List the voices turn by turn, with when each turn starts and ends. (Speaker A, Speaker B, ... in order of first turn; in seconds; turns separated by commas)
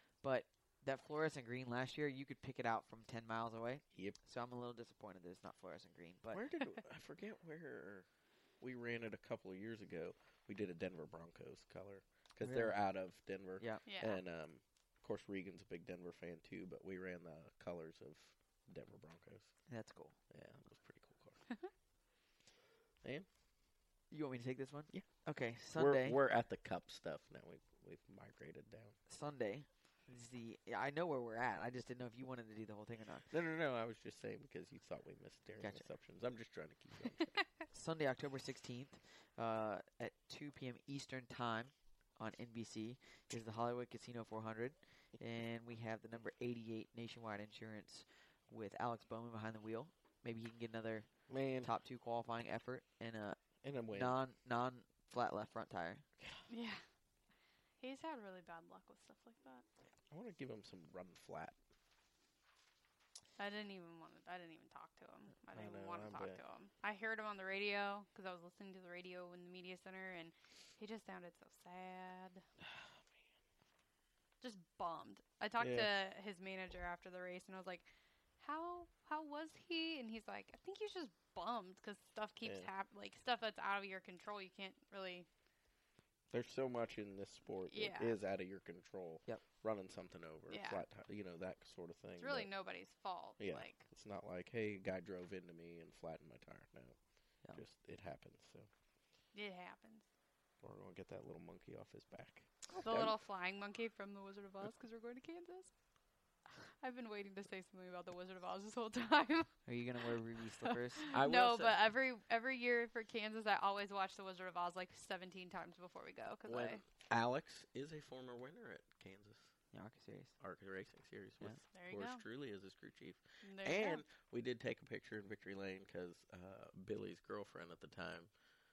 Speaker A: 0.2-6.4, Speaker B: 6.3-8.1, Speaker B: 8.6-19.5, Speaker A: 12.4-12.8, Speaker C: 13.9-14.2, Speaker A: 19.7-20.1, Speaker B: 20.3-21.4, Speaker A: 24.1-26.2, Speaker B: 25.8-28.9, Speaker A: 29.1-33.3, Speaker B: 33.3-37.4, Speaker A: 37.7-51.1, Speaker B: 51.3-51.7, Speaker A: 51.6-53.4, Speaker B: 53.6-54.1, Speaker A: 53.9-56.0, Speaker C: 56.5-56.8, Speaker C: 57.8-59.6, Speaker B: 60.1-61.5, Speaker C: 63.4-72.4, Speaker B: 65.5-66.4, Speaker C: 74.4-77.9, Speaker B: 75.6-75.9, Speaker C: 78.4-85.3, Speaker B: 86.3-92.5, Speaker C: 87.7-88.2, Speaker C: 90.5-90.8, Speaker C: 92.2-93.9, Speaker B: 93.4-97.0, Speaker B: 97.5-98.7, Speaker C: 99.3-100.0, Speaker B: 100.6-103.1, Speaker C: 102.8-105.7, Speaker C: 106.5-109.5, Speaker A: 109.7-111.1, Speaker C: 110.6-116.8, Speaker B: 111.1-111.8, Speaker B: 116.5-119.5, Speaker A: 119.7-120.3, Speaker B: 120.4-128.3, Speaker C: 121.7-122.2, Speaker C: 123.4-124.0